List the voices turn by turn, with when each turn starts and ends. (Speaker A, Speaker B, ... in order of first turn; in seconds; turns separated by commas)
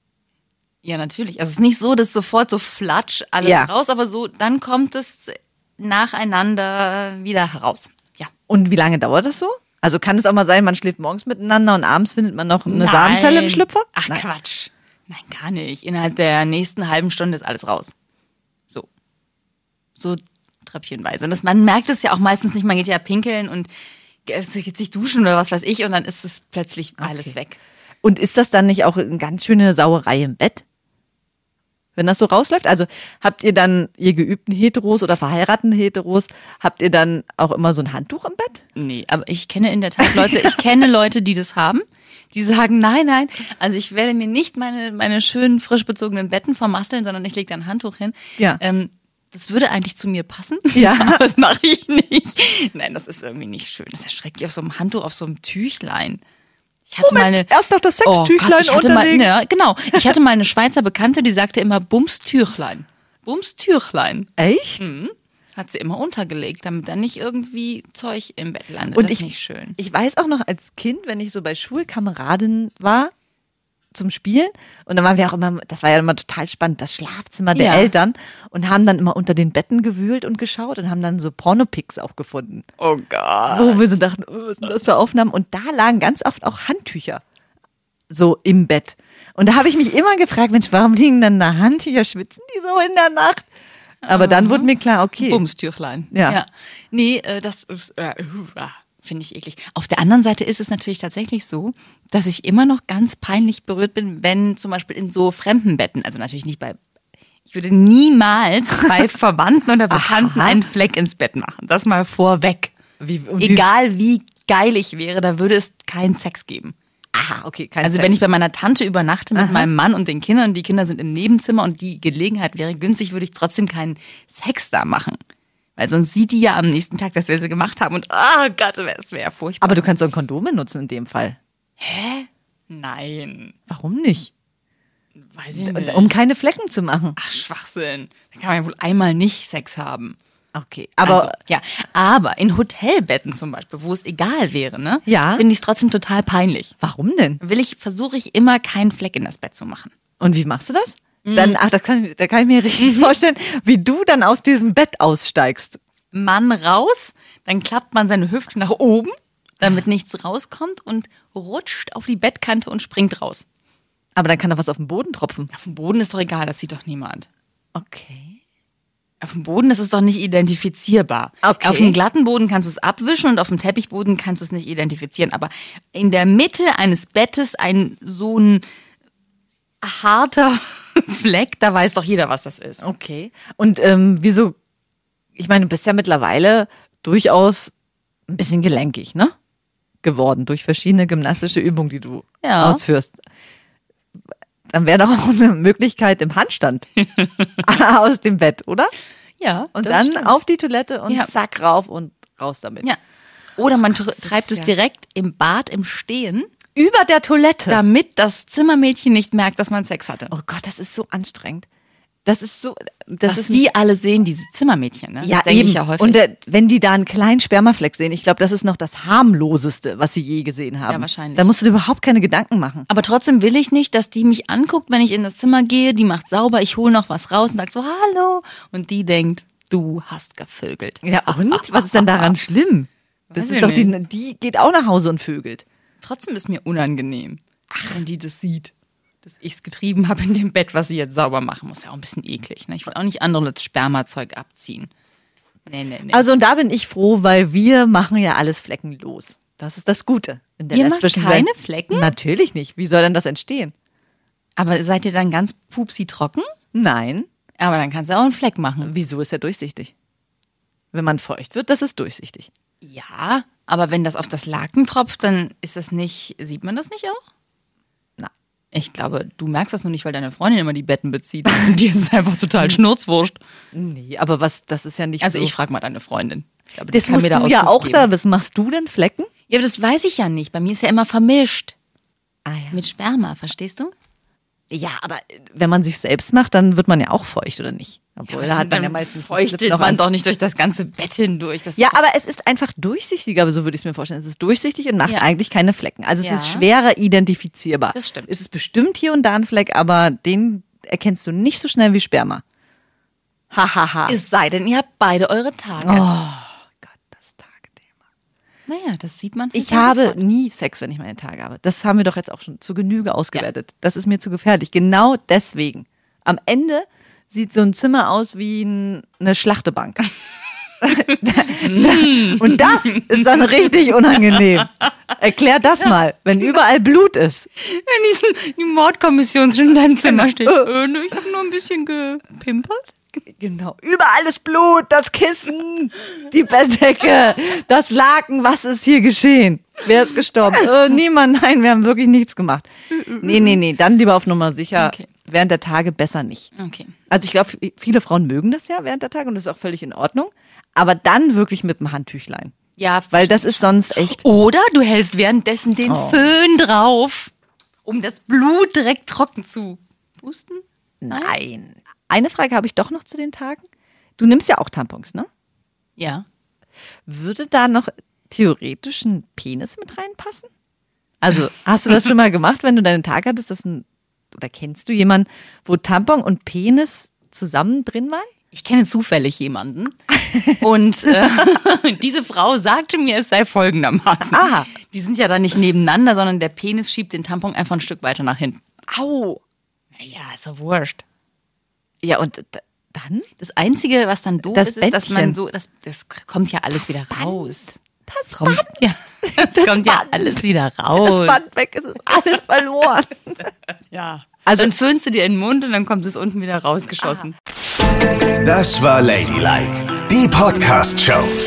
Speaker A: 0.8-8.3, Speaker B: 3.4-3.7, Speaker B: 8.5-14.3, Speaker A: 12.7-17.9, Speaker A: 20.0-23.7, Speaker A: 24.2-27.6, Speaker B: 27.0-27.4, Speaker B: 28.0-30.6, Speaker B: 32.0-38.6, Speaker A: 38.8-56.2, Speaker B: 40.0-40.6, Speaker B: 50.7-51.3, Speaker A: 56.9-57.5, Speaker B: 57.0-59.3, Speaker A: 58.0-69.8, Speaker B: 64.4-64.9, Speaker B: 69.0-73.1, Speaker B: 73.9-82.7, Speaker A: 77.5-77.9, Speaker A: 82.8-84.0, Speaker B: 83.5-87.2, Speaker B: 88.1-93.5, Speaker A: 94.0-106.8, Speaker B: 94.1-95.4, Speaker B: 96.1-96.4, Speaker A: 107.5-112.7, Speaker B: 109.9-110.6, Speaker B: 113.0-113.7, Speaker A: 113.4-116.8, Speaker B: 117.1-118.2, Speaker A: 117.8-125.2, Speaker B: 119.3-119.7, Speaker A: 125.8-129.9, Speaker B: 129.6-131.4, Speaker A: 131.8-133.6, Speaker B: 133.7-134.3, Speaker A: 135.2-136.1, Speaker B: 135.5-137.2, Speaker A: 137.2-140.2, Speaker B: 140.6-141.3, Speaker A: 141.0-146.7, Speaker B: 145.1-145.5, Speaker B: 146.8-147.4, Speaker A: 147.4-149.9, Speaker B: 150.2-155.8, Speaker A: 151.2-151.6, Speaker A: 152.8-153.2, Speaker A: 156.1-163.4, Speaker B: 164.2-165.5, Speaker A: 165.5-167.3, Speaker B: 167.8-168.4, Speaker A: 169.2-178.6, Speaker B: 171.4-172.0, Speaker A: 179.8-182.8, Speaker B: 182.8-184.6, Speaker B: 185.4-187.7, Speaker B: 188.3-189.3, Speaker B: 190.0-193.2, Speaker A: 192.4-192.8, Speaker B: 194.7-196.9, Speaker A: 197.0-197.6, Speaker B: 197.6-198.9, Speaker A: 199.4-200.4, Speaker B: 199.8-202.9, Speaker A: 203.6-206.5, Speaker B: 203.9-204.7, Speaker B: 206.8-207.8, Speaker A: 207.7-210.3, Speaker B: 210.3-211.7, Speaker B: 212.3-213.7, Speaker A: 213.3-216.2, Speaker B: 215.2-222.9, Speaker A: 220.9-221.5, Speaker A: 222.9-232.3, Speaker B: 231.0-235.6, Speaker A: 233.3-233.9, Speaker A: 236.0-238.7, Speaker A: 239.2-244.9, Speaker A: 245.7-246.3, Speaker B: 246.1-253.7, Speaker A: 250.7-252.1, Speaker A: 254.6-256.5, Speaker B: 256.7-257.3, Speaker A: 257.6-258.9, Speaker B: 258.8-259.9, Speaker B: 260.9-262.5, Speaker A: 262.8-267.2, Speaker A: 268.7-273.4, Speaker B: 273.7-275.5, Speaker A: 275.2-278.1, Speaker B: 276.9-279.3, Speaker A: 279.5-281.8, Speaker B: 282.5-282.8, Speaker A: 282.7-283.9, Speaker B: 284.7-290.0, Speaker A: 288.3-292.0, Speaker B: 291.8-302.4, Speaker A: 296.2-296.7, Speaker A: 297.9-298.3, Speaker B: 303.5-304.2, Speaker A: 304.1-306.1, Speaker B: 305.8-307.8, Speaker A: 308.7-310.2, Speaker B: 309.5-320.1, Speaker B: 320.8-327.5, Speaker A: 321.5-324.6, Speaker A: 327.6-333.2, Speaker B: 330.0-330.7, Speaker B: 333.3-346.5, Speaker A: 342.9-343.6, Speaker A: 344.8-345.1, Speaker A: 346.6-347.0, Speaker B: 347.1-352.6, Speaker A: 352.8-357.3, Speaker B: 353.1-354.2, Speaker B: 355.9-356.3, Speaker A: 357.9-361.4, Speaker B: 361.0-363.6, Speaker B: 364.2-365.3, Speaker A: 366.0-366.2, Speaker B: 367.1-370.5, Speaker B: 371.2-378.3, Speaker A: 378.5-380.0, Speaker A: 380.6-388.6, Speaker B: 381.1-381.5, Speaker B: 384.3-384.7, Speaker B: 388.9-389.4, Speaker A: 389.9-391.0, Speaker B: 392.0-393.3, Speaker A: 393.4-397.8, Speaker B: 394.5-395.4, Speaker B: 396.8-398.7, Speaker A: 398.3-401.5, Speaker B: 399.3-400.4, Speaker B: 401.0-403.4, Speaker A: 403.9-407.4, Speaker B: 404.5-404.7, Speaker C: 408.4-411.3